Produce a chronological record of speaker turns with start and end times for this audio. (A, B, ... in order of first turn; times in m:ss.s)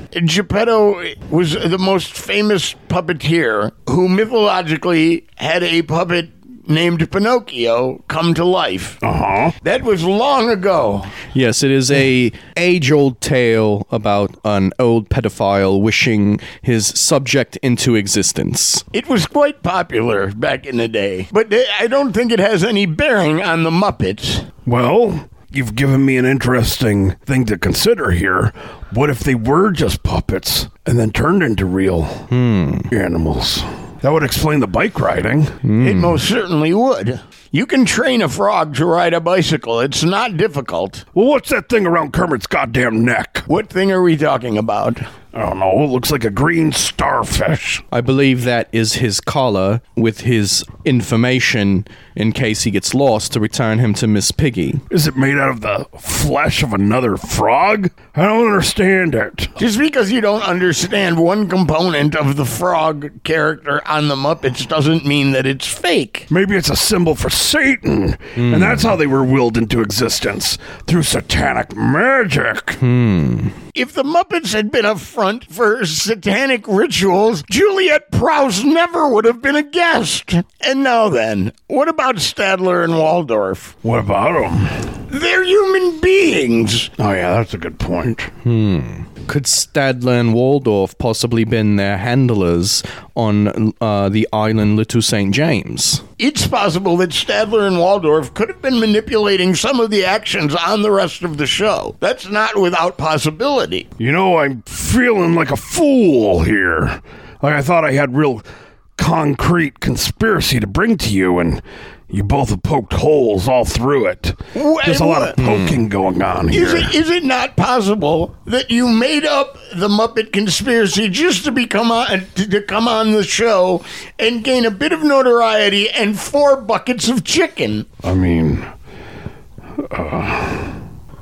0:00.1-0:09.0 A
0:09.0-0:09.6 B
0:09.6-0:11.1 A
0:11.3-0:18.8 C
0:18.9-0:24.5 A
0:24.6-0:32.3 B
0:32.3-0:32.9 C
0:32.9-0:35.6 B
0:35.6-0:36.2 C
0:35.8-0:41.0 A
0:41.1-0:43.5 B
0:43.5-0:45.1 A
0:45.3-0:47.8 B
0:47.9-0:54.8 C
0:54.9-0:59.5 B
0:59.6-1:06.3 A
1:06.3-1:12.8 B
1:08.4-1:09.0 C
1:12.8-1:13.6 C
1:13.8-1:23.7 A
1:23.8-1:24.8 B
1:25.1-1:26.9 A
1:27.0-1:28.3 B
1:28.4-1:36.0 C
1:36.2-1:43.9 A
1:44.0-1:48.4 B
1:49.0-1:56.9 B
1:54.6-1:55.4 A
1:55.4-1:55.8 C
1:56.5-2:07.9 A
2:08.0-2:08.7 B
2:09.8-2:10.8 B